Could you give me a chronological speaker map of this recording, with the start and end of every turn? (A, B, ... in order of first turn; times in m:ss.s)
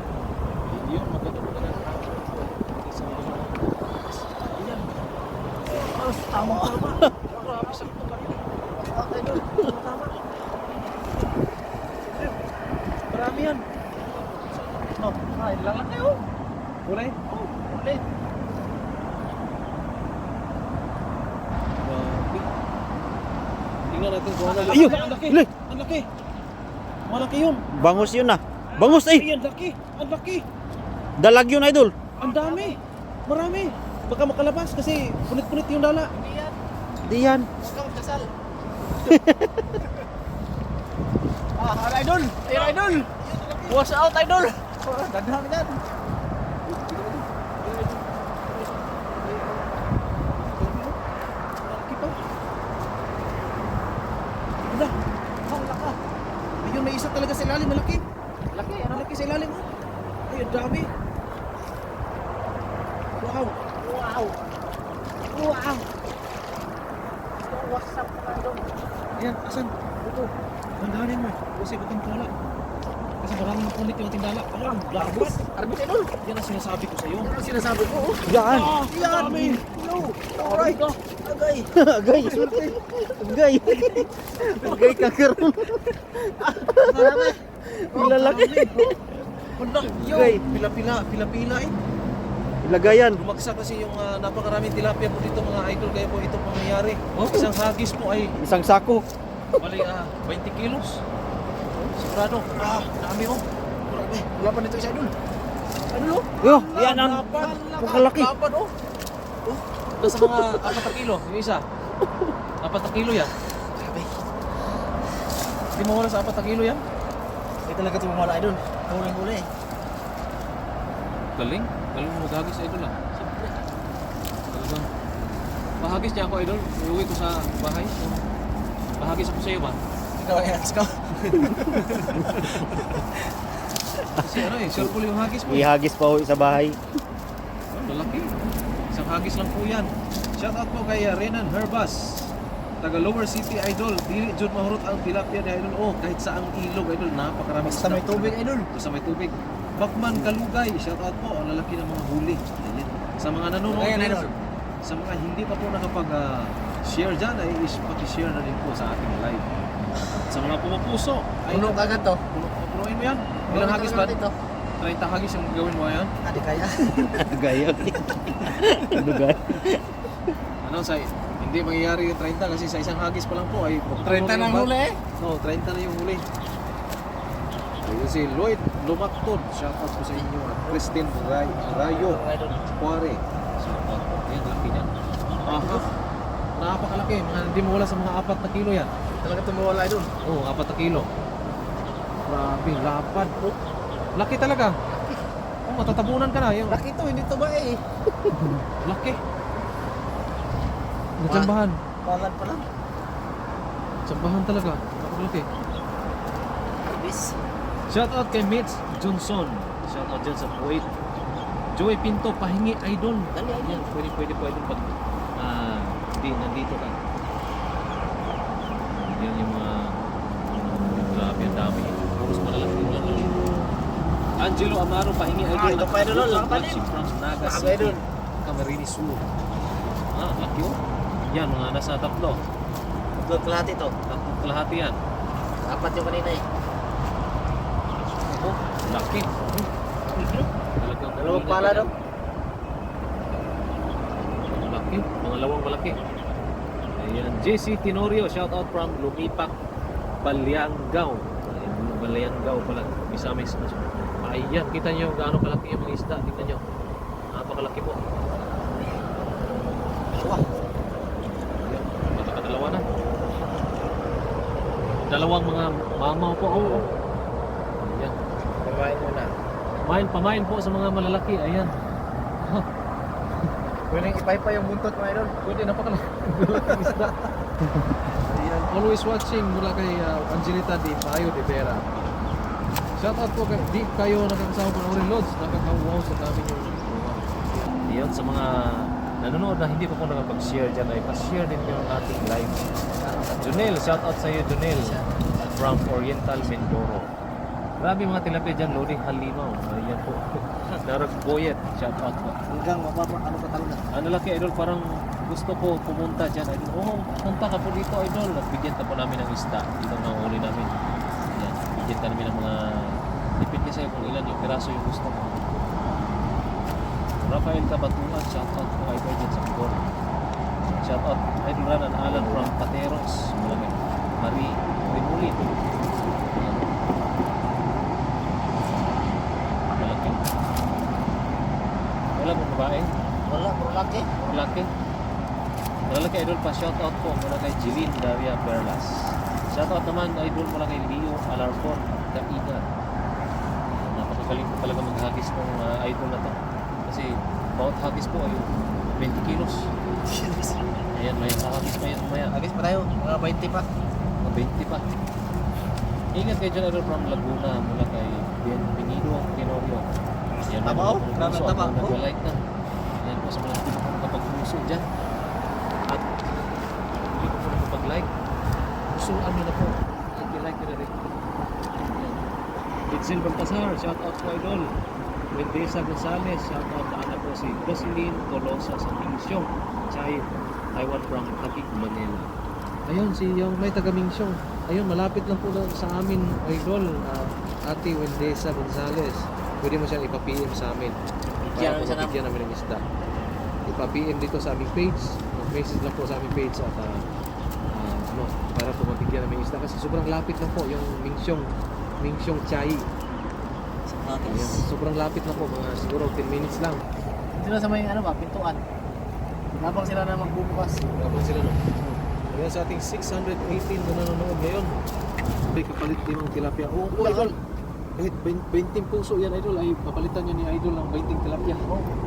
0:00.7-0:04.9 A
0:05.6-0:08.4 A
0:06.3-0:06.8 B
0:07.6-0:08.0 B
0:08.7-0:09.5 B
0:09.3-0:10.1 A
0:12.1-0:12.4 A
0:13.1-0:13.6 A
0:14.3-0:15.2 A
0:15.0-0:16.2 B
0:16.9-0:17.3 A
0:17.3-0:18.0 B
0:21.8-0:22.5 A
0:23.9-0:26.1 A
0:24.5-0:25.1 B
0:24.7-0:25.5 C
0:27.1-0:27.8 A
0:27.8-0:29.3 C
0:27.8-0:28.1 B
0:28.7-0:30.4 A
0:31.2-0:32.0 C
0:32.2-0:36.1 A
0:32.2-0:32.8 B
0:36.1-0:36.5 B
0:37.0-0:37.5 C
0:37.6-0:38.3 B
0:39.0-0:39.6 C
0:41.6-0:43.9 B
0:42.4-0:43.1 A
0:43.7-0:45.8 A
0:46.7-0:49.7 A
0:50.3-0:51.0 A
0:51.6-0:52.2 A
0:54.7-0:55.0 A
0:55.5-0:56.0 A
0:56.6-0:58.0 A
0:58.5-0:59.1 B
0:58.9-0:59.7 A
1:00.3-1:00.9 A
1:03.2-1:03.6 A
1:03.8-1:04.4 B
1:05.3-1:05.8 B
1:07.4-1:08.7 B
1:09.2-1:09.7 A
1:10.8-1:12.3 A
1:13.2-1:15.4 A
1:15.0-1:16.1 B
1:16.2-1:17.3 A
1:17.2-1:21.6 B
1:18.3-1:18.7 C
1:18.5-1:19.7 A
1:20.2-1:21.0 A
1:21.7-1:25.8 C
1:22.4-1:22.7 B
1:24.7-1:25.0 A
1:26.4-1:27.2 C
1:26.6-1:27.4 B
1:26.8-1:27.3 A
1:27.9-1:29.3 C
1:27.9-1:28.2 B
1:27.9-1:28.8 A
1:29.6-1:31.8 A
1:29.9-1:30.4 C
1:32.6-1:33.2 C
1:32.8-1:38.4 A
1:37.2-1:37.5 C
1:38.4-1:39.0 C
1:39.6-1:41.0 A
1:42.0-1:43.4 A
1:44.0-1:45.1 B
1:45.9-1:48.7 A
1:46.4-1:48.3 C
1:46.8-1:47.7 B
1:50.0-1:51.7 A
1:52.6-1:53.3 A
1:53.6-1:54.1 B
1:55.7-1:56.8 A
1:57.6-1:59.5 B
2:01.4-2:03.7 A
2:04.5-2:04.9 A
2:05.8-2:08.2 A
2:09.0-2:09.8 A
2:10.2-2:11.1 B
2:11.1-2:12.1 A
2:14.2-2:15.7 A
2:15.5-2:16.8 C
2:17.8-2:18.4 A
2:18.9-2:39.5 A
2:27.6-2:28.7 B
2:33.7-2:34.3 B
2:40.3-2:44.2 A
2:41.5-2:42.2 B
2:43.5-2:44.3 B
2:44.8-2:46.1 A
2:46.2-2:47.2 B
2:47.2-2:49.9 C
2:50.6-2:56.2 A
2:54.0-2:55.0 B
2:57.8-3:04.9 A
3:01.8-3:02.6 B
3:05.5-3:05.8 A
3:05.5-3:05.9 B
3:06.6-3:08.9 A
3:09.2-3:10.1 B
3:10.2-3:11.1 A
3:12.3-3:13.4 A
3:13.2-3:13.5 B
3:14.2-3:14.8 A
3:14.9-3:15.2 B
3:15.6-3:16.8 A
3:16.7-3:18.3 B
3:18.4-3:19.2 A
3:21.2-3:21.8 A
3:21.3-3:21.5 B
3:22.0-3:22.7 B
3:24.1-3:25.5 A
3:26.8-3:27.4 B
3:27.9-3:30.9 A
3:31.7-3:37.0 A
3:33.3-3:33.9 B
3:38.9-3:43.6 A
3:44.4-3:49.3 A
3:45.5-3:46.8 B
3:47.4-3:48.0 B
3:50.1-3:52.4 A
3:53.2-3:54.0 B
3:54.1-3:55.0 A
3:55.6-3:56.4 B
3:58.3-3:59.7 A
4:00.1-4:00.5 B
4:00.8-4:01.9 A
4:01.2-4:01.9 B
4:04.4-4:06.0 A
4:07.0-4:09.5 A
4:10.2-4:16.7 A
4:17.3-4:18.0 A
4:20.1-4:20.4 B
4:21.6-4:22.8 A
4:25.0-4:26.9 A
4:27.8-4:28.2 A
4:28.6-4:29.4 B
4:29.8-4:31.8 A
4:32.4-4:32.7 A
4:33.9-4:35.3 B
4:35.4-4:37.3 A
4:38.2-4:41.9 A
4:43.0-4:52.7 A
4:53.0-4:53.3 B
4:53.3-4:57.1 A
4:54.8-4:55.0 B
4:57.8-5:00.2 A
5:00.8-5:02.4 A
5:02.5-5:03.8 B
5:03.9-5:10.7 A
5:11.3-5:15.3 A
5:17.2-5:19.9 A
5:20.7-5:25.5 A
5:26.3-5:26.9 A
5:29.7-5:30.2 A
5:32.2-5:32.9 A
5:33.3-5:34.2 B
5:34.2-5:34.7 A
5:35.9-5:42.7 A
5:43.8-5:49.7 A
5:50.1-5:50.6 B
5:50.9-5:52.3 A
5:52.3-5:53.7 B
5:54.2-5:54.8 A
5:56.1-5:59.9 A
6:00.5-6:02.4 A
6:00.6-6:02.0 B
6:03.0-6:04.8 A
6:07.1-6:08.1 A
6:08.9-6:11.1 A
6:11.8-6:12.2 A
6:12.9-6:14.7 A
6:15.3-6:22.3 A
6:22.9-6:31.0 A
6:31.4-6:32.2 B
6:31.5-6:32.8 A
6:33.7-6:37.1 A
6:37.7-6:42.9 A
6:43.9-6:44.7 B
6:44.2-6:46.8 A
6:47.3-6:48.6 B
6:49.5-6:50.9 B
6:50.9-6:54.8 A
6:55.5-6:57.4 A
6:56.9-6:57.3 B
6:58.0-7:01.9 A